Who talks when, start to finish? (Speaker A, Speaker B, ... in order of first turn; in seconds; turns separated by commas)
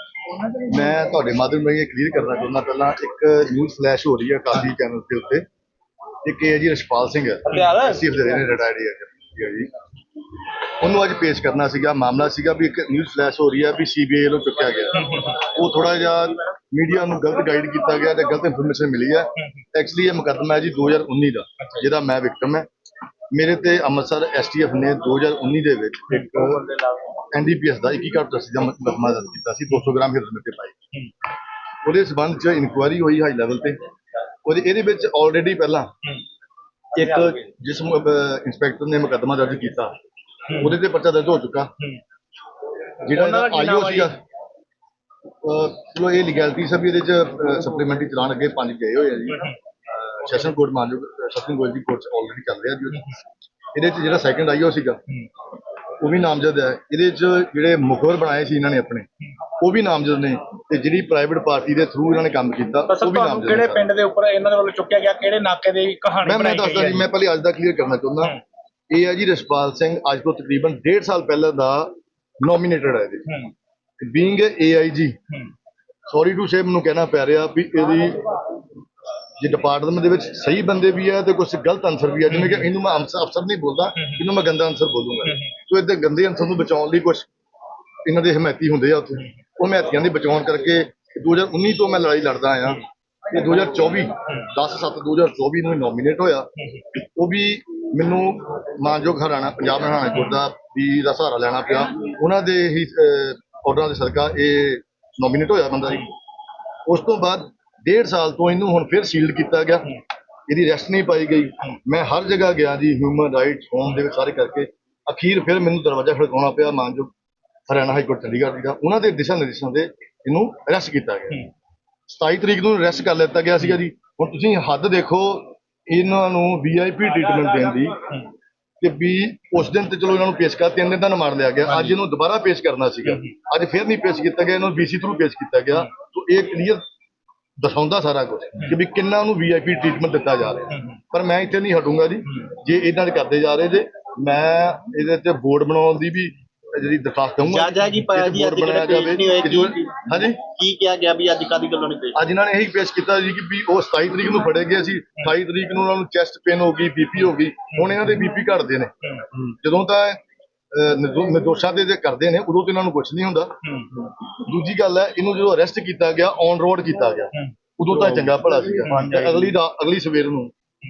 Speaker A: 0.4-5.4, Speaker A: 6.2-9.7, Speaker B: 7.5-8.0, Speaker A: 10.8-22.7, Speaker B: 14.9-15.4, Speaker A: 23.3-26.7, Speaker B: 26.1-26.8, Speaker A: 27.3-30.7, Speaker A: 31.8-33.8, Speaker A: 34.5-35.9, Speaker A: 36.9-39.9, Speaker B: 37.0-37.4, Speaker A: 40.5-41.7, Speaker A: 43.0-44.2, Speaker B: 43.1-44.1, Speaker A: 45.4-53.1, Speaker A: 53.7-55.0, Speaker A: 56.0-59.1, Speaker A: 59.6-63.9, Speaker B: 62.9-67.1, Speaker A: 66.2-68.4, Speaker A: 68.9-73.3, Speaker A: 74.0-75.2, Speaker A: 76.1-78.4, Speaker A: 79.4-87.3, Speaker B: 82.3-82.7, Speaker A: 88.0-106.1, Speaker A: 106.9-110.0, Speaker A: 110.5-117.1, Speaker A: 117.7-121.4, Speaker A: 122.1-128.0, Speaker A: 128.8-136.8, Speaker A: 137.6-150.4, Speaker C: 147.4-152.2, Speaker A: 152.1-158.9, Speaker A: 159.5-160.2, Speaker A: 160.7-163.5, Speaker B: 163.7-164.0, Speaker A: 164.4-170.5, Speaker C: 168.0-168.4, Speaker B: 168.8-169.5